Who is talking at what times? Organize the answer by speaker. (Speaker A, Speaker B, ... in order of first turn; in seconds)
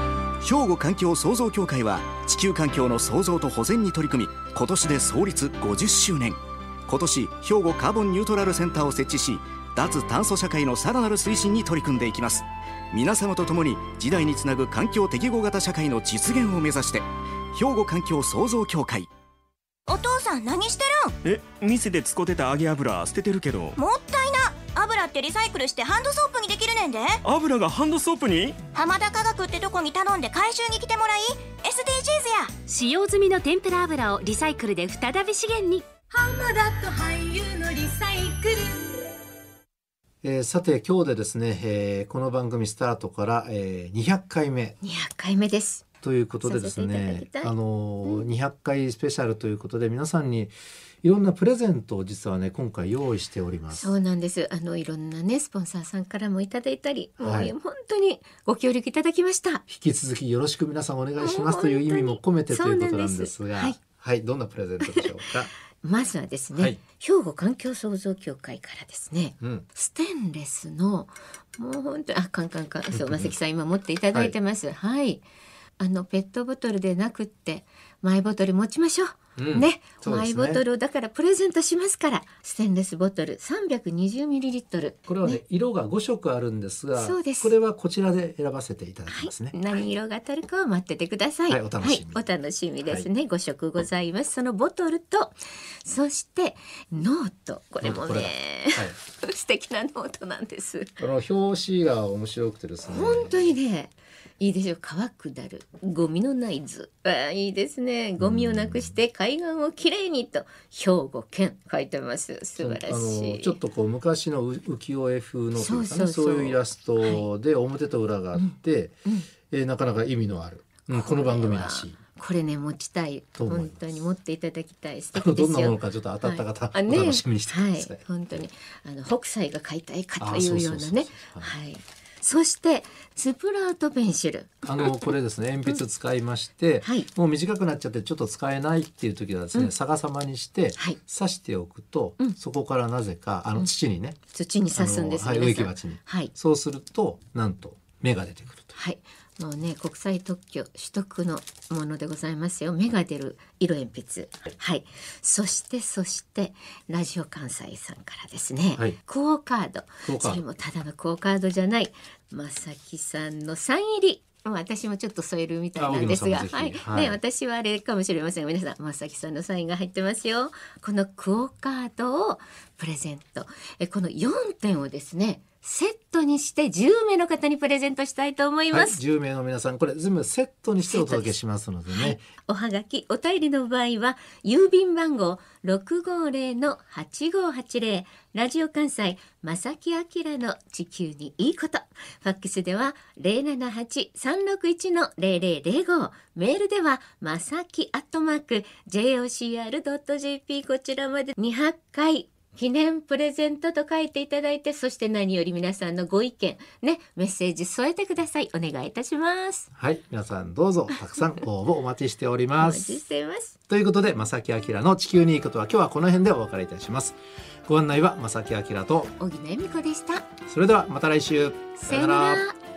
Speaker A: 0.4-19.1
Speaker B: 19.9-21.2, 23.8-27.2, 28.7-32.5, 36.1-39.0
Speaker C: 21.2-23.8, 27.2-28.6
Speaker D: 32.7-35.9
Speaker E: 40.2-44.8, 46.0-54.0, 57.2-57.5, 59.7-65.5, 69.4-69.7, 72.9-73.3, 79.4-80.6, 85.1-89.6, 91.5-92.3, 97.8-99.0, 101.0-103.4, 108.2-109.0, 112.6-122.0, 123.4-124.1, 125.1-128.0, 130.2-131.6, 134.7-144.2, 144.7-148.8, 160.0-160.4, 165.8-167.2, 178.7-182.2, 209.7-213.0, 213.7-219.1, 220.5-222.4
Speaker F: 44.8-45.9, 46.4-48.3, 53.7-59.6, 61.2-63.8, 65.8-75.2, 75.8-85.4, 87.0-87.5, 89.1-101.0, 102.9-113.6, 115.5-117.3, 118.3-119.3, 120.9-135.0, 136.8-137.1, 144.3-146.3, 148.7-179.0, 180.8-181.3, 181.9-209.7, 212.6-213.6, 219.1-220.3, 221.8-222.6